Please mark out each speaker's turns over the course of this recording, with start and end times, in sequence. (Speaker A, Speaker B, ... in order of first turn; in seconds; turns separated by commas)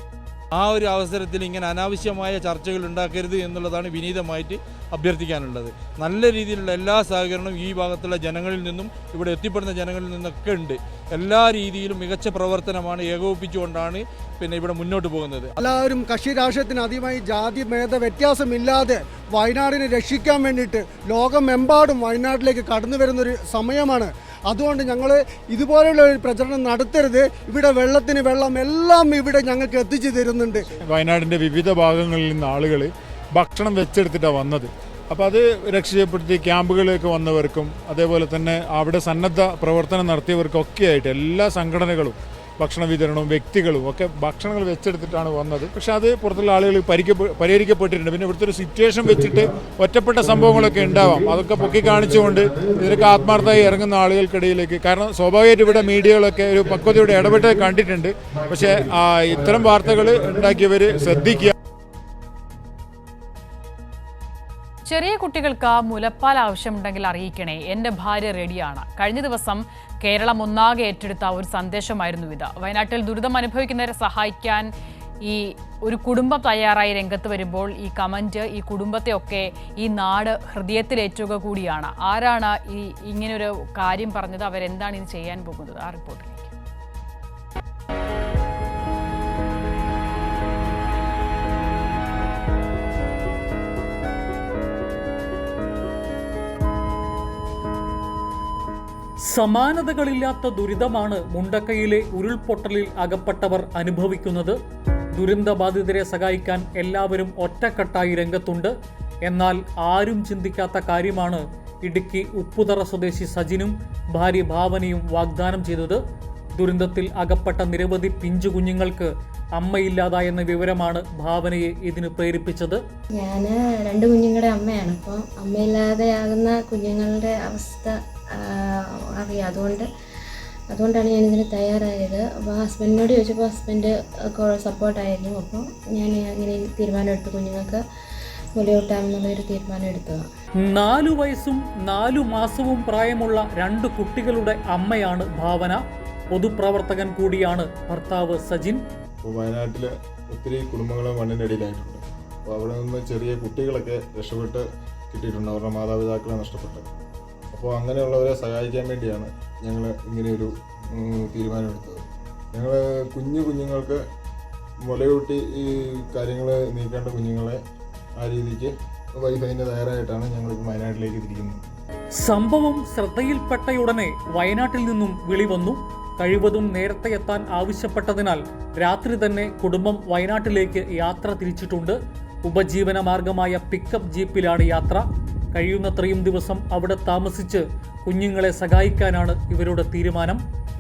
Speaker A: 0.5-15.6, Speaker B: 15.6-30.7, Speaker C: 30.9-61.5, Speaker D: 64.8-74.7, Speaker D: 75.2-86.5, Speaker E: 99.3-104.6, Speaker E: 105.2-108.7, Speaker E: 109.3-116.0, Speaker E: 116.6-122.8, Speaker F: 123.2-129.9, Speaker F: 130.7-137.8, Speaker F: 138.5-140.2, Speaker E: 140.6-145.8, Speaker E: 146.3-148.8, Speaker G: 149.2-156.9, Speaker G: 157.5-164.0, Speaker G: 164.8-167.6, Speaker G: 168.2-171.6, Speaker E: 172.2-185.0, Speaker E: 185.6-190.4